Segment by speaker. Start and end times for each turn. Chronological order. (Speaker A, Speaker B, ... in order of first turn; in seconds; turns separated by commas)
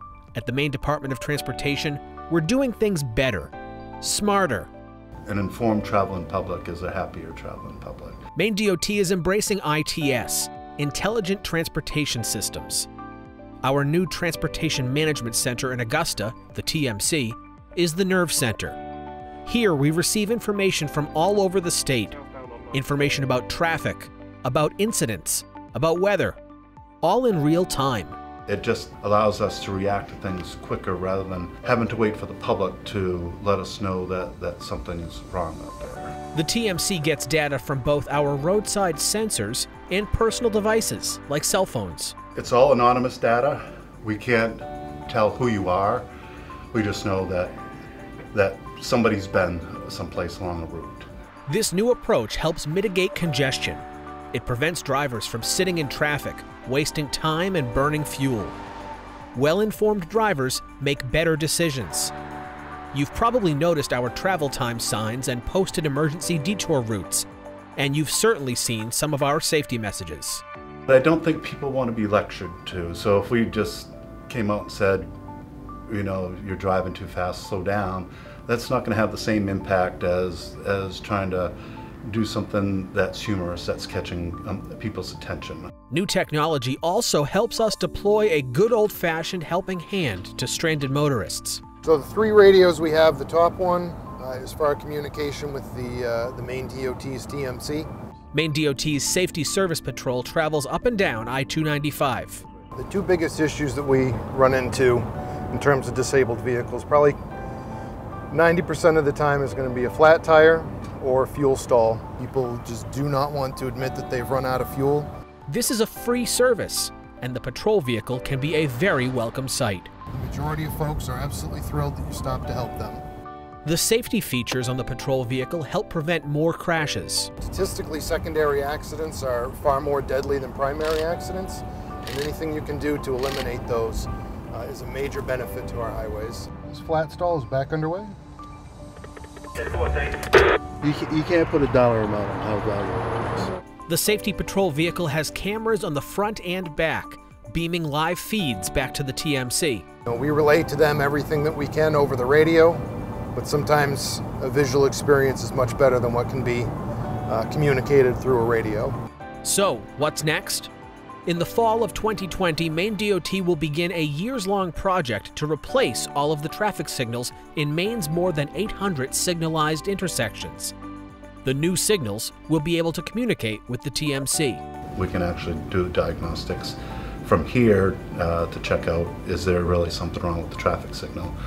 Speaker A: 0.3-4.7, Speaker B: 5.3-8.2, Speaker A: 8.4-12.9, Speaker A: 13.6-18.8, Speaker A: 19.4-26.4, Speaker A: 27.0-28.2, Speaker B: 28.5-36.1, Speaker A: 36.3-42.2, Speaker B: 42.4-46.1, Speaker B: 46.7-47.6, Speaker B: 48.3-51.1, Speaker A: 51.5-58.6, Speaker A: 59.3-62.1, Speaker A: 62.9-70.4, Speaker B: 70.9-75.1, Speaker B: 75.9-85.7, Speaker A: 85.9-91.6, Speaker C: 91.8-97.9, Speaker A: 98.3-102.4, Speaker C: 102.8-107.2, Speaker C: 108.3-115.1, Speaker A: 115.5-119.9, Speaker C: 120.1-123.0, Speaker A: 123.7-127.3, Speaker C: 127.4-138.2, Speaker C: 140.8-142.9, Speaker D: 140.8-143.5, Speaker A: 143.9-149.8, Speaker C: 150.1-152.8, Speaker C: 153.3-156.7, Speaker C: 157.3-159.0, Speaker A: 159.4-160.7, Speaker A: 161.3-170.7, Speaker A: 171.4-174.6, Speaker B: 175.0-181.3